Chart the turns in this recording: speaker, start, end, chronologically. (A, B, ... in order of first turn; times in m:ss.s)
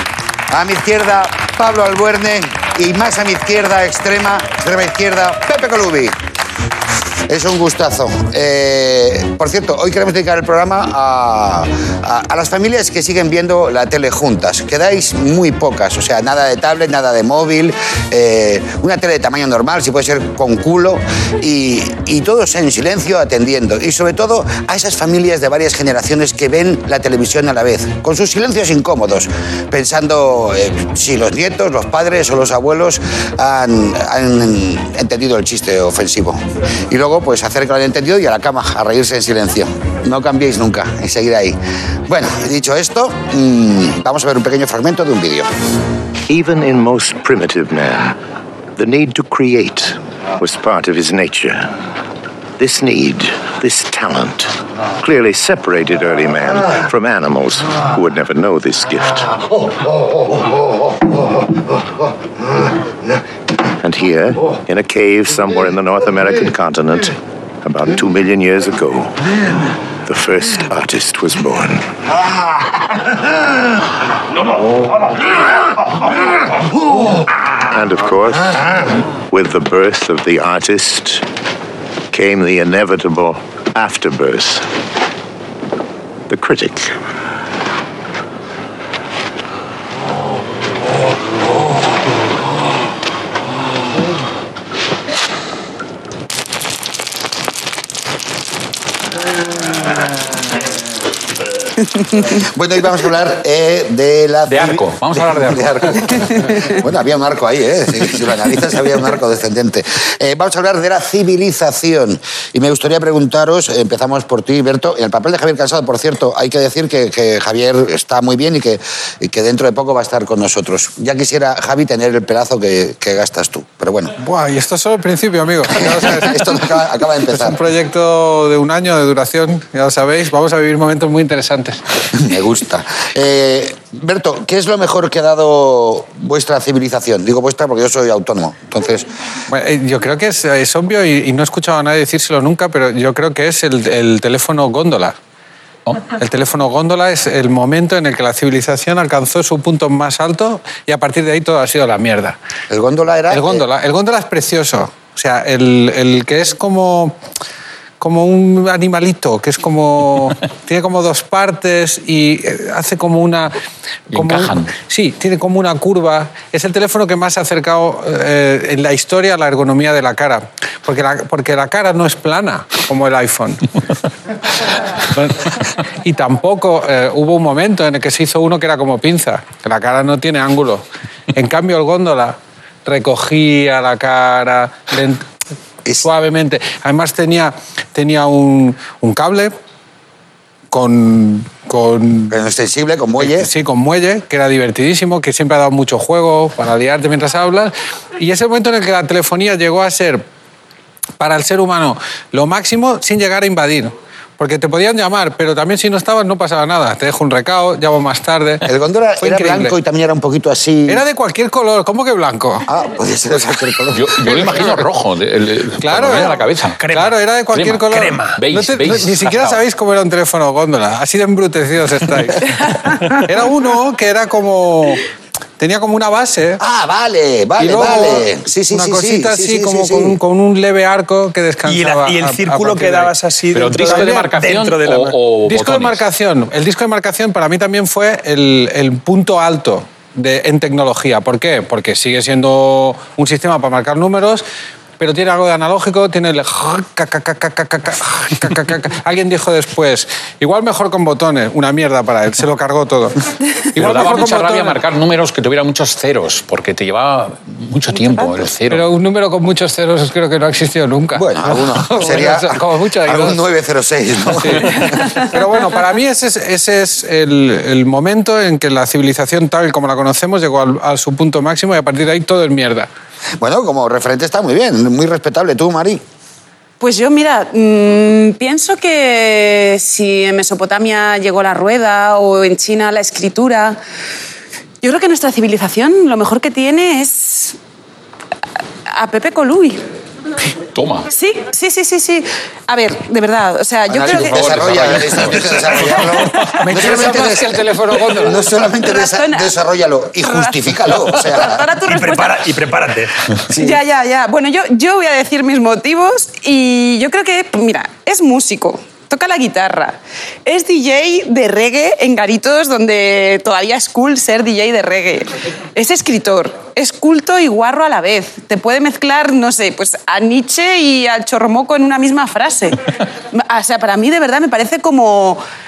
0:00.5-0:06.2 A
0:07.3-0:45.5 A
0:46.3-0:48.2 B
0:48.8-0:51.8 B
0:52.6-0:59.5 B
1:03.8-1:09.2 B
1:10.1-1:12.0 B
1:17.7-1:21.2 B
1:22.1-1:24.6 B
1:26.3-1:27.0 B
1:42.3-2:04.2 A
1:44.5-1:46.5 C
2:04.2-2:06.6 D
2:05.7-2:07.6 A
2:07.3-2:11.8 D
2:12.1-2:19.1 A
2:19.5-2:25.2 D
2:26.1-2:32.4 D
2:32.7-2:33.6 A
2:33.3-2:37.2 D
2:38.0-2:43.6 D
2:44.1-2:44.7 C
2:44.1-2:53.7 D
2:55.1-3:05.2 D
3:06.0-3:09.6 D
3:10.7-3:12.4 D
3:12.3-3:13.5 A
3:13.2-3:20.2 D
3:21.2-3:28.7 D
3:28.6-3:31.0 A
3:29.2-3:29.8 D
3:30.9-3:32.7 D
3:32.7-3:34.7 A
3:33.9-3:36.8 C
3:35.8-3:45.0 D
3:36.8-3:37.2 E
3:37.5-3:39.6 C
3:37.9-3:38.4 E
3:45.6-3:46.6 D
3:46.6-3:50.2 A
3:47.6-3:53.1 D
3:51.6-3:55.2 E
3:53.5-3:56.0 C
3:53.7-3:54.3 D
3:55.5-4:04.4 D
4:05.0-4:13.2 D
4:13.8-4:14.8 D
4:13.8-4:18.9 C
4:17.9-4:18.5 F
4:18.7-4:23.4 D
4:21.1-4:25.3 A
4:24.3-4:32.9 D
4:33.4-4:36.0 A
4:36.8-4:43.8 F
4:44.8-4:47.6 F
4:48.9-4:49.8 F
4:50.7-4:51.1 C
4:51.1-4:54.9 F
4:53.9-5:01.7 A
4:54.1-4:56.0 C
4:56.1-4:56.5 F
4:56.5-4:58.4 D
4:58.9-4:59.5 F
5:01.1-5:02.5 F
5:01.9-5:03.4 E
5:03.5-5:03.8 A
5:03.5-5:25.4 F